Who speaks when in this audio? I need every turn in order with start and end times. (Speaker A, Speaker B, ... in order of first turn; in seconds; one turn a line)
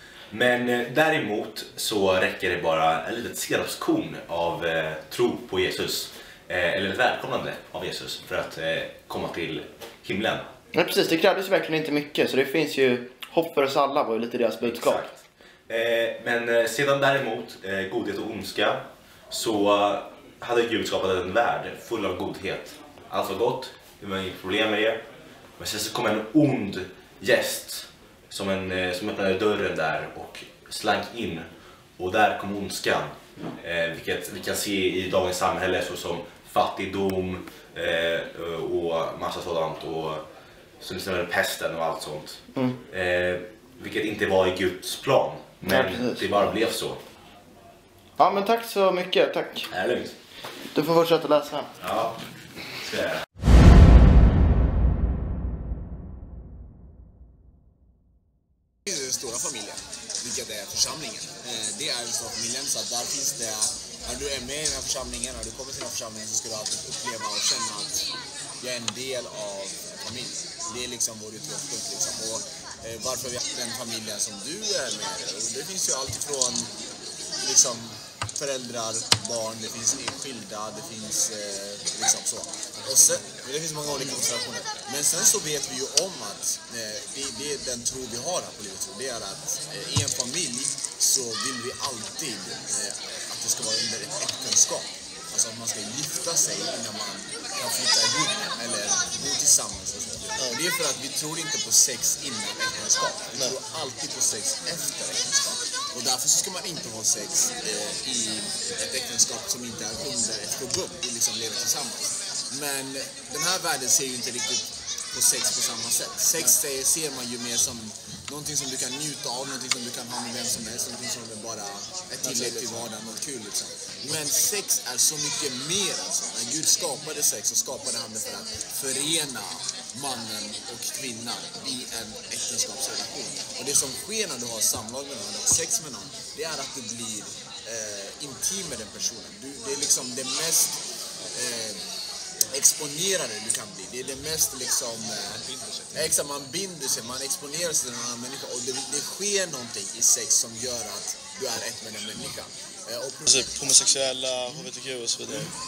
Speaker A: 0.3-10.5
Speaker B: 10.7-15.0
Speaker A: 14.6-25.0
Speaker A: 25.6-40.2
Speaker A: 40.8-47.0
Speaker B: 45.6-46.3
Speaker B: 48.2-49.7
Speaker A: 49.7-50.1
Speaker B: 50.7-51.7
Speaker A: 51.8-52.2
Speaker A: 52.7-53.2
Speaker C: 58.9-76.7
Speaker C: 77.4-140.8
Speaker C: 141.3-141.8
Speaker C: 142.5-153.6
Speaker D: 153.2-155.5